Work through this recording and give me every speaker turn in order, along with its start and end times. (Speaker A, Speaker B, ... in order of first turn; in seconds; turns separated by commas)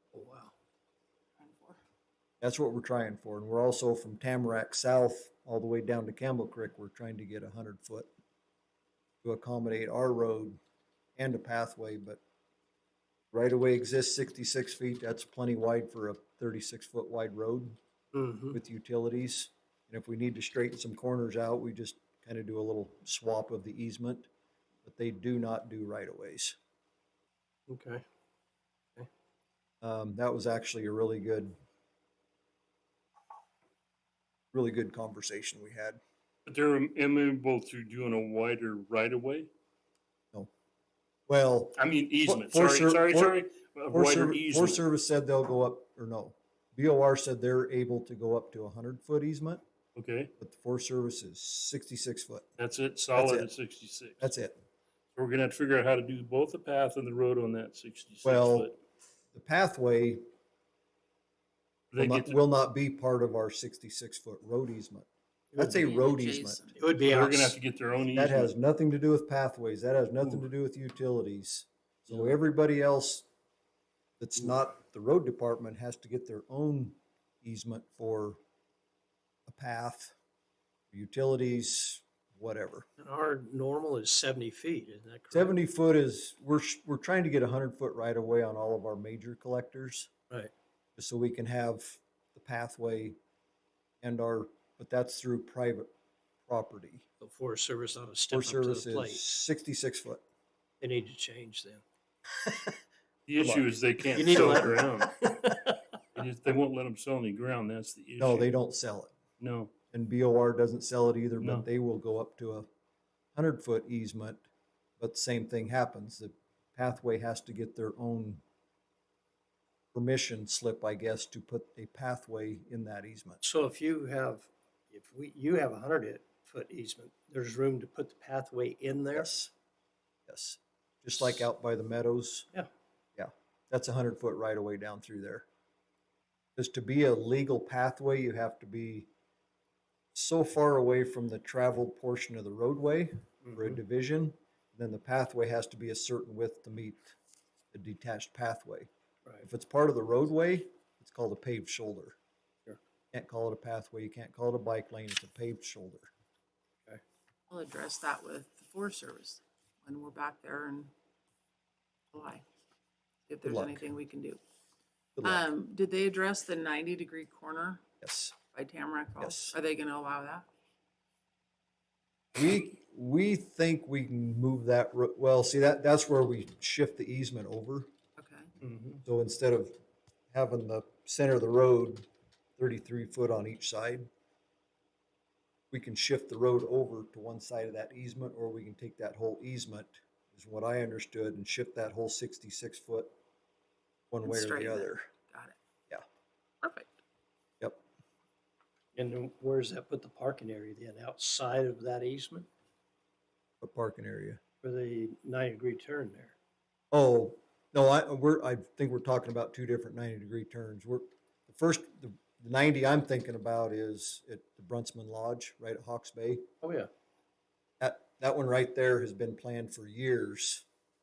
Speaker A: 0.1-0.5, Speaker B: 1.4-1.8, Speaker C: 2.4-8.1, Speaker C: 9.2-10.6, Speaker C: 11.2-12.2, Speaker C: 13.3-17.8, Speaker A: 18.1-18.6, Speaker C: 18.5-24.3, Speaker C: 24.8-26.6, Speaker A: 27.7-28.0, Speaker C: 29.8-31.5, Speaker C: 34.5-36.0, Speaker D: 36.5-39.5, Speaker C: 41.3-49.6, Speaker D: 41.8-44.8, Speaker D: 50.0-50.3, Speaker C: 50.4-52.5, Speaker D: 52.6-54.3, Speaker C: 53.1-53.5, Speaker C: 54.2-54.5, Speaker D: 55.1-58.8, Speaker C: 58.2-58.7, Speaker C: 59.3-60.2, Speaker D: 61.9-62.4, Speaker C: 62.0-66.7, Speaker A: 65.5-65.9, Speaker B: 65.6-66.9, Speaker A: 66.8-67.6, Speaker D: 67.0-68.5, Speaker C: 68.1-73.3, Speaker C: 74.2-78.4, Speaker C: 79.5-80.2, Speaker C: 80.9-82.9, Speaker A: 83.0-85.6, Speaker C: 85.3-90.1, Speaker C: 91.0-93.2, Speaker C: 94.0-95.9, Speaker C: 96.4-97.0, Speaker A: 97.2-99.2, Speaker C: 98.3-100.2, Speaker A: 100.8-101.8, Speaker D: 103.3-105.1, Speaker C: 103.4-103.6, Speaker A: 104.2-105.8, Speaker D: 106.1-108.5, Speaker C: 108.2-109.1, Speaker D: 109.4-109.7, Speaker C: 109.9-112.7, Speaker D: 111.4-111.7, Speaker C: 113.3-114.4, Speaker C: 115.0-118.4, Speaker C: 119.9-123.4, Speaker A: 123.4-129.3, Speaker C: 129.1-129.5, Speaker C: 130.3-132.5, Speaker C: 133.2-135.4, Speaker C: 136.6-139.1, Speaker C: 140.1-147.2, Speaker A: 143.4-143.8, Speaker C: 147.7-148.9, Speaker C: 149.4-152.2, Speaker C: 153.1-156.1, Speaker B: 157.5-160.9, Speaker B: 162.1-162.4, Speaker B: 163.3-164.4, Speaker C: 163.4-163.9, Speaker C: 165.2-165.4, Speaker B: 165.2-167.8, Speaker C: 168.0-168.4, Speaker B: 168.5-170.5, Speaker C: 169.2-169.6, Speaker C: 172.3-177.9, Speaker B: 178.2-178.5, Speaker A: 178.6-179.0, Speaker C: 179.0-179.8, Speaker C: 180.3-182.1, Speaker C: 182.6-184.1, Speaker C: 185.7-193.1, Speaker C: 194.1-195.1, Speaker B: 194.2-195.6, Speaker B: 196.6-196.9, Speaker A: 198.9-202.5, Speaker C: 203.6-204.4, Speaker A: 204.6-206.3, Speaker C: 206.9-216.5, Speaker A: 216.6-216.9, Speaker C: 217.8-220.7